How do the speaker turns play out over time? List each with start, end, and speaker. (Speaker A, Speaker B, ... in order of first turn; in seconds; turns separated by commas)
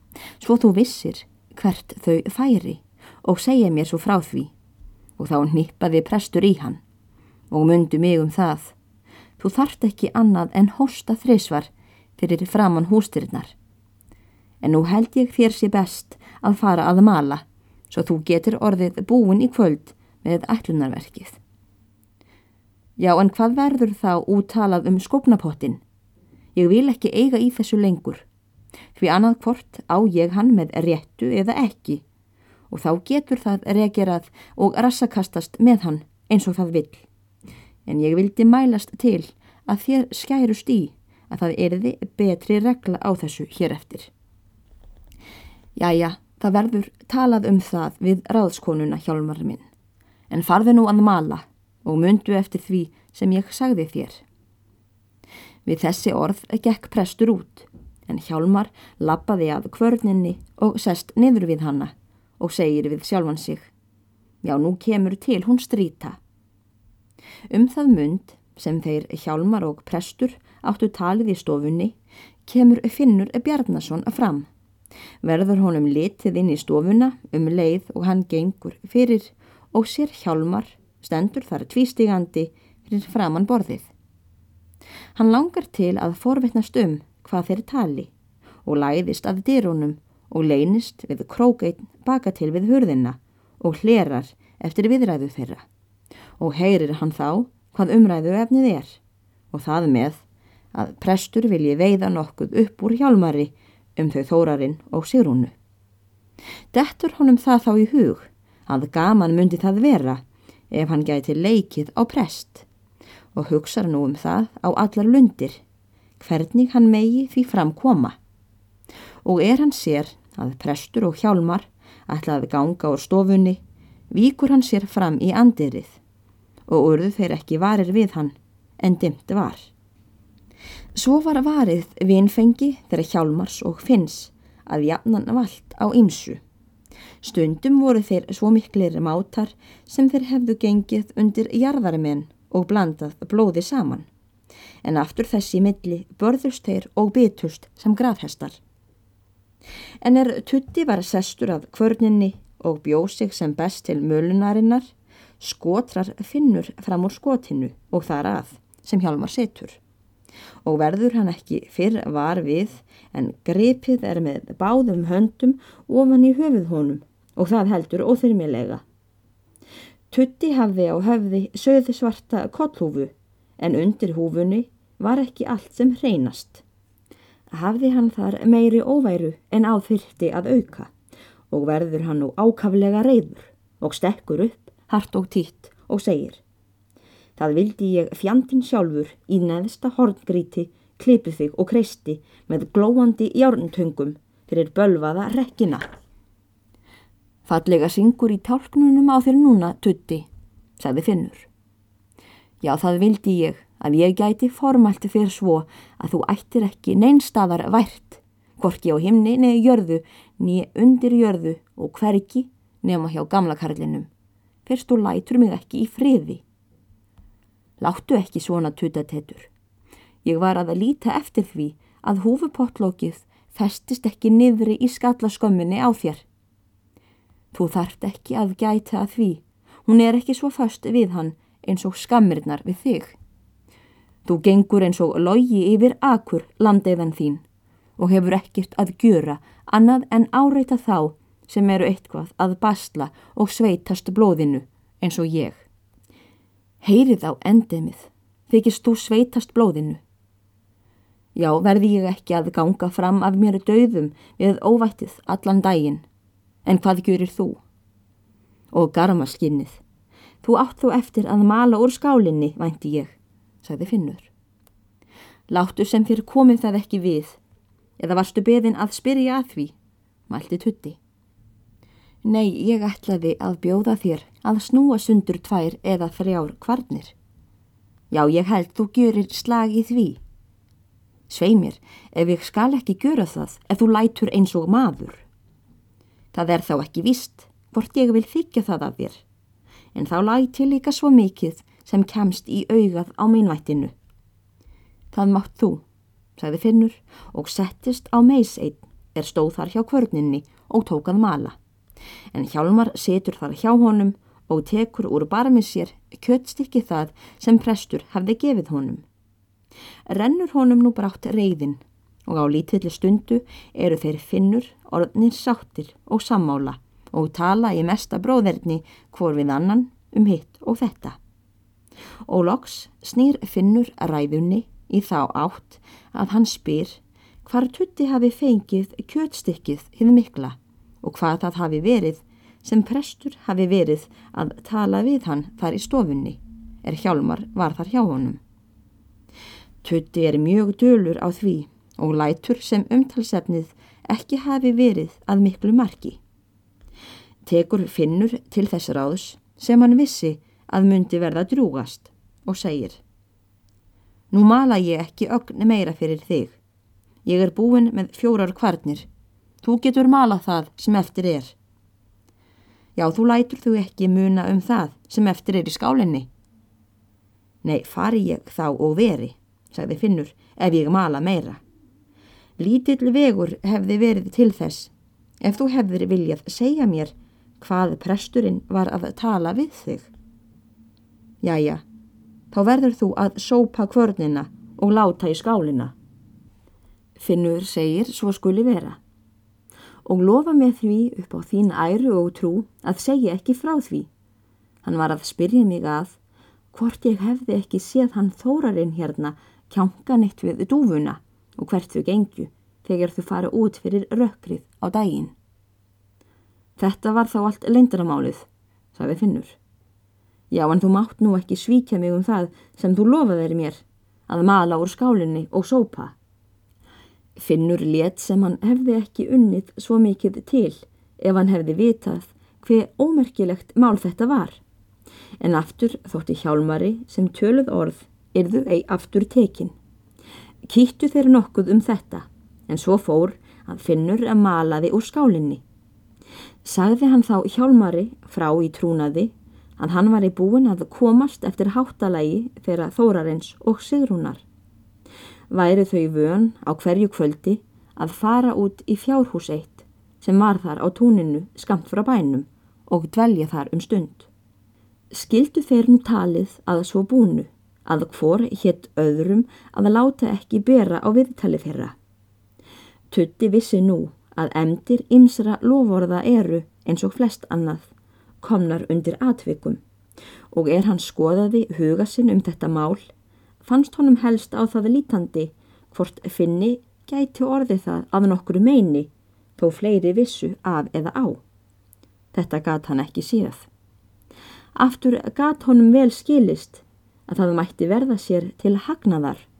Speaker A: 0.4-4.5, Speaker A: 5.2-6.8, Speaker A: 7.5-8.7, Speaker A: 9.4-13.5, Speaker A: 14.6-21.4, Speaker A: 23.0-25.8, Speaker A: 26.5-28.2, Speaker A: 28.9-32.0, Speaker A: 32.7-37.0, Speaker A: 37.9-44.1, Speaker A: 45.8-49.6, Speaker A: 50.3-54.2, Speaker A: 55.6-63.7, Speaker A: 64.4-66.2, Speaker A: 67.5-71.9, Speaker A: 72.5-74.5, Speaker A: 75.2-83.9, Speaker A: 85.1-88.1, Speaker A: 88.6-95.6, Speaker A: 96.4-99.0, Speaker A: 99.5-105.5, Speaker A: 106.7-112.7, Speaker A: 113.3-115.6, Speaker A: 116.2-118.2, Speaker A: 119.2-123.6, Speaker A: 124.1-126.0, Speaker A: 126.7-129.7, Speaker A: 130.9-136.4, Speaker A: 137.2-144.1, Speaker A: 144.8-148.6, Speaker A: 150.0-159.8, Speaker A: 160.6-168.8, Speaker A: 170.1-176.6, Speaker A: 177.5-180.9, Speaker A: 181.5-186.4, Speaker A: 187.4-195.8, Speaker A: 197.4-200.3, Speaker A: 200.8-201.5, Speaker A: 202.6-214.1, Speaker A: 214.6-216.4, Speaker A: 217.8-219.5, Speaker A: 220.2-226.2, Speaker A: 227.5-233.2, Speaker A: 234.2-237.4, Speaker A: 238.0-245.6, Speaker A: 246.8-250.0, Speaker A: 251.3-256.0, Speaker A: 256.6-257.6, Speaker A: 258.7-259.8, Speaker A: 260.4-264.3, Speaker A: 265.5-267.4, Speaker A: 268.0-269.7, Speaker A: 270.3-271.0, Speaker A: 272.2-277.1, Speaker A: 278.1-280.2, Speaker A: 281.3-285.2, Speaker A: 286.3-289.2, Speaker A: 289.9-293.9, Speaker A: 295.1-295.8, Speaker A: 296.4-301.6, Speaker A: 302.3-309.0, Speaker A: 310.1-321.2, Speaker A: 322.2-338.4, Speaker A: 339.8-346.2, Speaker A: 347.4-353.0, Speaker A: 354.3-356.6, Speaker A: 357.2-359.1, Speaker A: 359.6-361.5, Speaker A: 362.9-366.3, Speaker A: 367.6-371.6, Speaker A: 372.6-380.1, Speaker A: 381.4-381.8, Speaker A: 382.5-385.9, Speaker A: 387.2-389.0, Speaker A: 390.0-394.1, Speaker A: 394.8-396.2, Speaker A: 396.7-405.3, Speaker A: 406.8-409.6, Speaker A: 410.5-416.1, Speaker A: 417.4-424.6, Speaker A: 425.4-429.7, Speaker A: 430.6-435.6, Speaker A: 436.6-444.4, Speaker A: 445.5-454.3, Speaker A: 455.1-461.9, Speaker A: 463.1-467.9, Speaker A: 468.4-469.8, Speaker A: 470.5-473.1, Speaker A: 473.6-481.4, Speaker A: 482.3-483.7, Speaker A: 484.7-489.5